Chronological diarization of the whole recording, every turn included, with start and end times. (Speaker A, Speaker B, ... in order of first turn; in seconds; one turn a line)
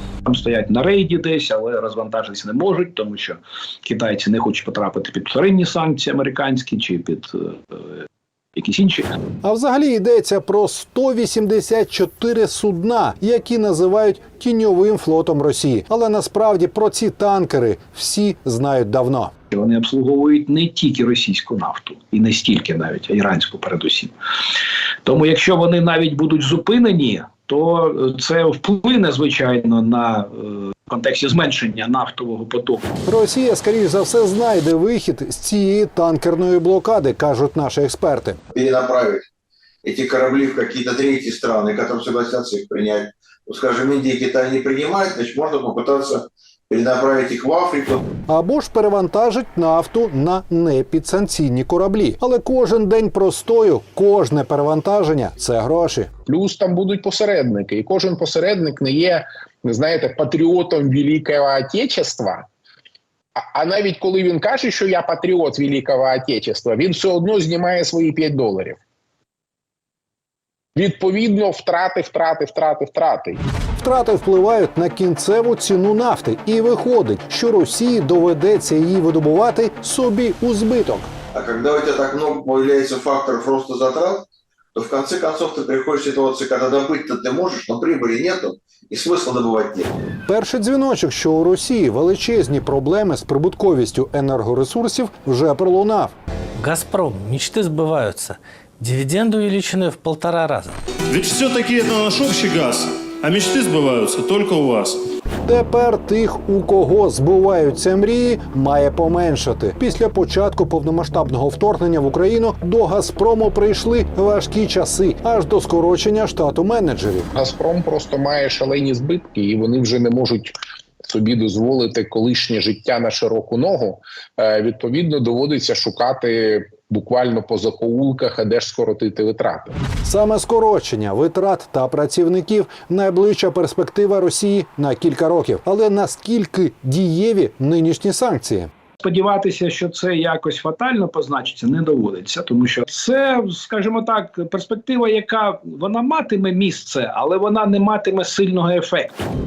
Speaker A: 0.2-7.8
Speaker A: 8.6-9.1
Speaker B: 9.4-19.3
Speaker A: 19.5-24.1
Speaker A: 25.0-32.9
Speaker B: 33.0-38.4
Speaker C: 38.5-39.3
Speaker C: 39.8-48.0
Speaker B: 48.3-56.1
Speaker D: 56.2-62.5
Speaker D: 63.5-68.8
Speaker D: 70.8-73.4
Speaker B: 73.8-81.1
Speaker C: 81.3-89.9
Speaker B: 90.3-96.1
Speaker E: 96.6-100.8
Speaker F: 101.1-105.0
Speaker B: 105.5-117.3
Speaker D: 117.3-129.8
Speaker B: 130.0-138.7
Speaker A: 139.0-149.3